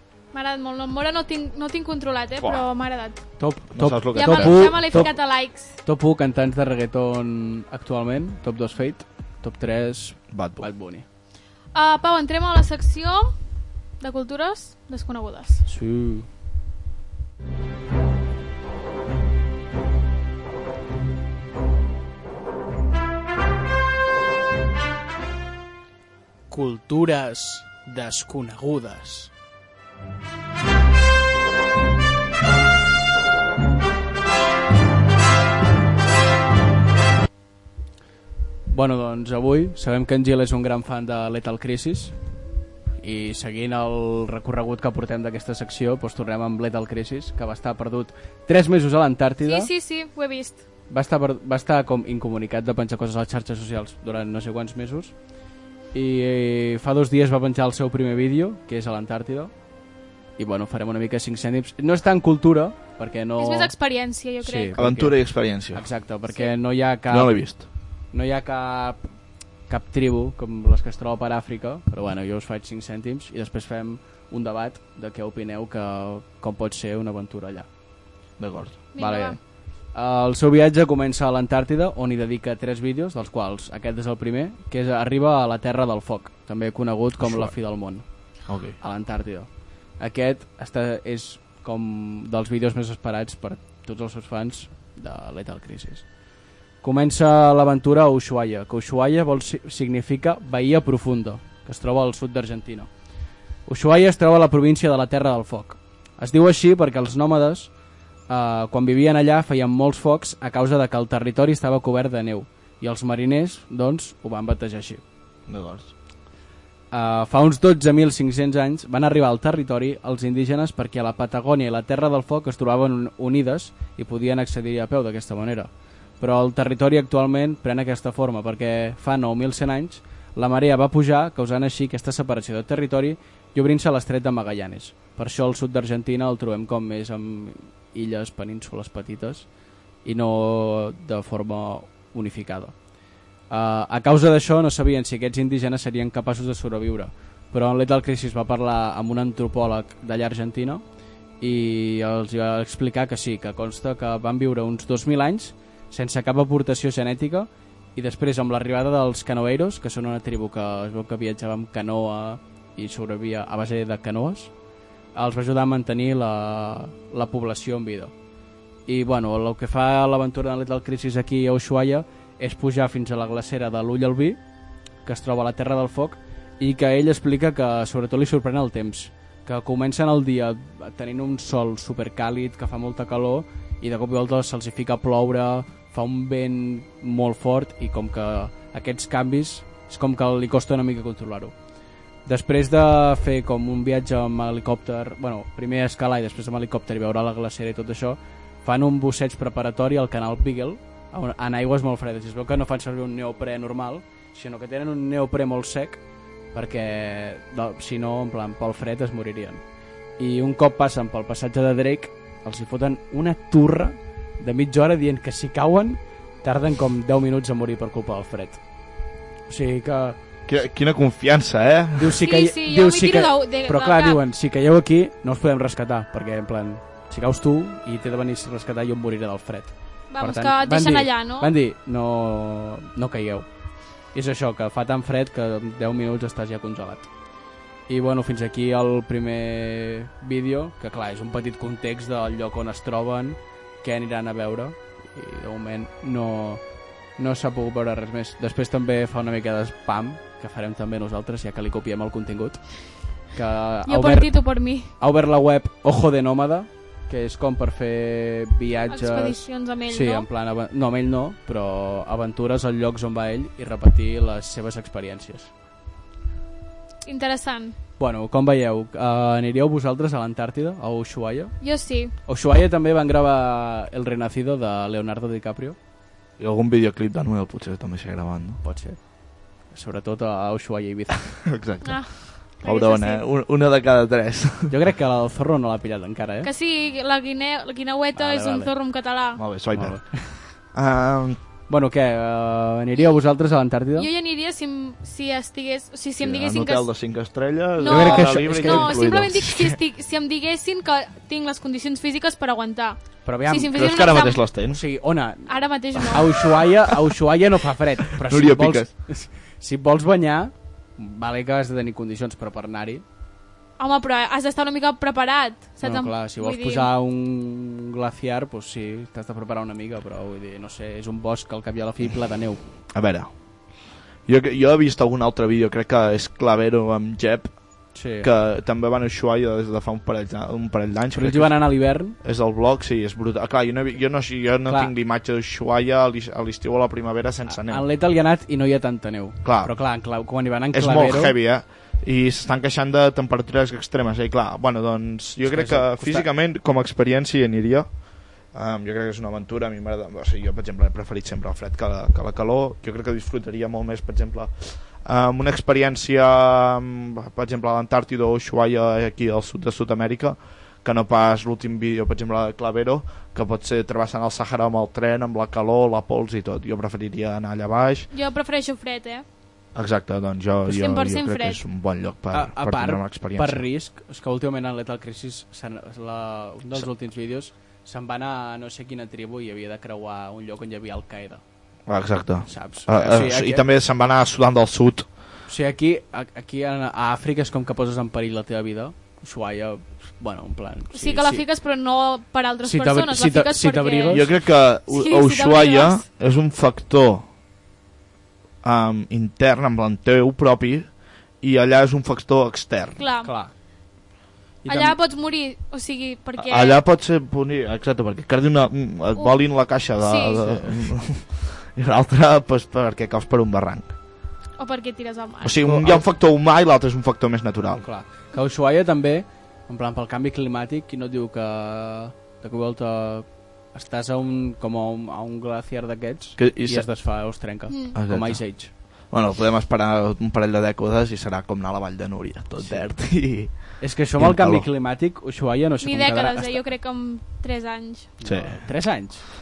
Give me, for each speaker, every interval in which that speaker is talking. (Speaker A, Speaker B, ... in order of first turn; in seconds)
Speaker A: 0.3-3.2, 4.1-5.7, 11.7-13.3, 14.0-15.6, 49.4-50.6, 63.4-64.8, 78.9-79.4, 222.2-224.2, 230.1-231.5, 253.9-254.9, 258.9-260.3, 267.0-267.8, 271.6-272.1, 281.8-283.2, 286.4-289.4, 293.9-296.9, 297.8-304.4, 305.5-306.4, 313.8-316.9, 368.1-369.2, 370.6-371.6, 390.9-394.3, 394.9-396.0, 403.0-403.3, 404.6-406.8, 410.0-410.4, 414.6-415.6, 435.8-438.1
Speaker B: 3.4-5.1, 5.8-11.0, 15.7-16.3, 26.5-29.3, 38.7-42.1, 43.0-49.7, 50.9-55.1, 55.9-59.5, 60.4-63.7, 64.4-67.4, 68.1-69.0, 69.7-77.7, 79.0-88.1, 88.8-96.1, 96.8-102.9, 103.7-107.7, 108.3-115.0, 116.9-139.5, 140.0-142.8, 143.5-150.8, 151.4-164.5, 165.1-168.1, 168.9-174.4, 175.0-191.5, 192.2-206.0, 206.5-209.6, 210.2-218.6, 219.5-220.2, 222.0-233.5, 234.1-237.1, 237.9-246.6, 247.2-254.4, 254.9-265.5, 268.0-271.5, 272.2-275.8, 278.6-279.0, 279.7-281.3, 284.7-286.5, 288.1-288.7, 289.7-290.4, 291.7-294.1, 297.8-299.1, 303.2-303.7, 304.7-313.0, 315.8-322.6, 327.9-328.3, 331.1-332.1, 334.7-334.9, 337.4-341.3, 345.4-346.3, 372.3-381.4, 382.4-383.6, 385.5-391.4, 392.6-394.3, 403.2-403.5, 404.6-404.9, 410.4-410.8, 417.8-428.7, 432.6-432.9, 433.8-436.6, 438.2-439.2
Speaker C: 3.7-5.1, 10.3-10.7, 64.8-65.9, 67.1-67.6, 78.4-78.8, 87.2-87.5, 88.5-88.8, 115.5-115.9, 220.5-222.2, 276.4-278.6, 281.4-284.7, 289.4-290.1, 290.7-291.4, 296.2-299.8, 303.7-304.8, 308.2-308.9, 322.9-337.8, 339.4-339.8, 340.7-368.1, 369.7-373.6, 381.9-385.1, 394.1-397.2, 398.6-403.0, 406.4-413.9, 415.4-417.8, 426.4-426.9, 427.9-428.4, 429.0-434.7, 438.2-438.6